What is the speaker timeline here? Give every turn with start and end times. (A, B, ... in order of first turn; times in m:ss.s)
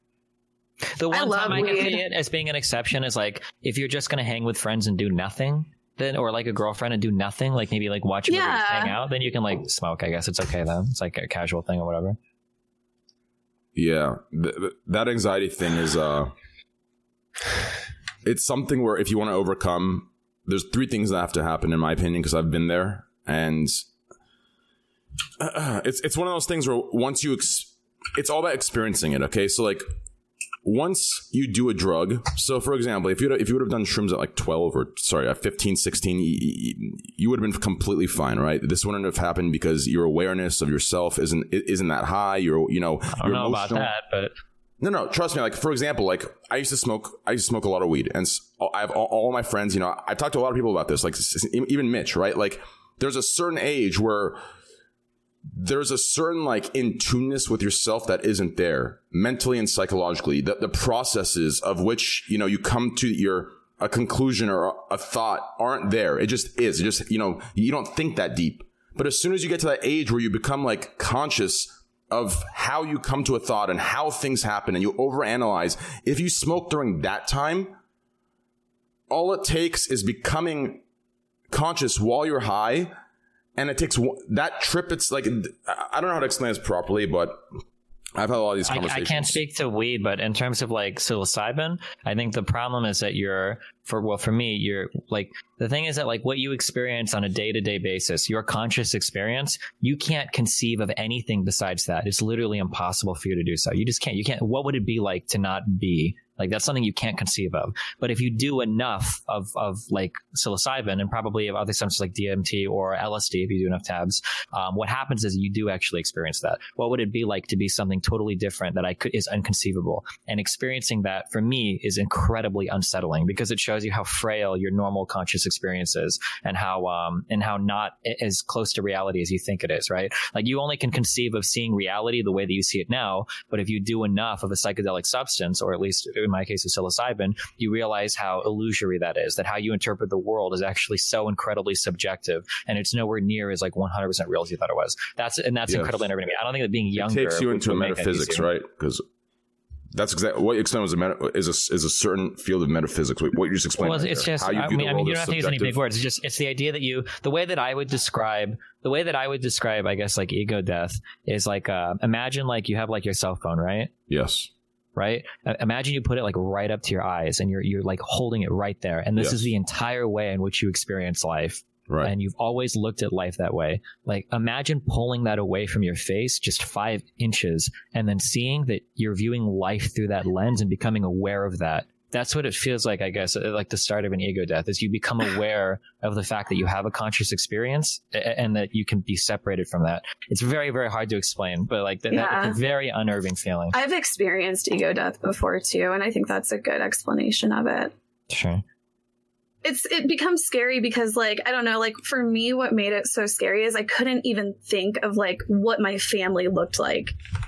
0:01.0-0:12.2 A
0:01.1-0:02.1 B
0:08.3-0:09.0 B
0:13.8-0:16.3 C
0:18.2-0:23.9 C
0:25.4-0:29.8 C
0:30.6-0:43.9 C
0:43.2-0:44.3 A
0:44.8-0:54.4 C
0:55.5-1:17.8 C
1:19.1-1:20.8 C
1:21.5-1:22.9 C
1:23.6-1:27.4 C
1:28.2-1:29.4 C
1:28.7-2:28.5 A
2:25.7-2:26.1 C
2:27.0-2:29.0 C
2:29.9-2:35.8 C
2:33.8-2:43.9 A
2:44.1-2:44.5 C
2:45.0-3:13.8 A
2:49.2-2:49.5 C
3:12.1-3:12.6 B
3:13.7-3:17.9 B
3:18.3-3:18.6 A
3:19.6-3:27.2 B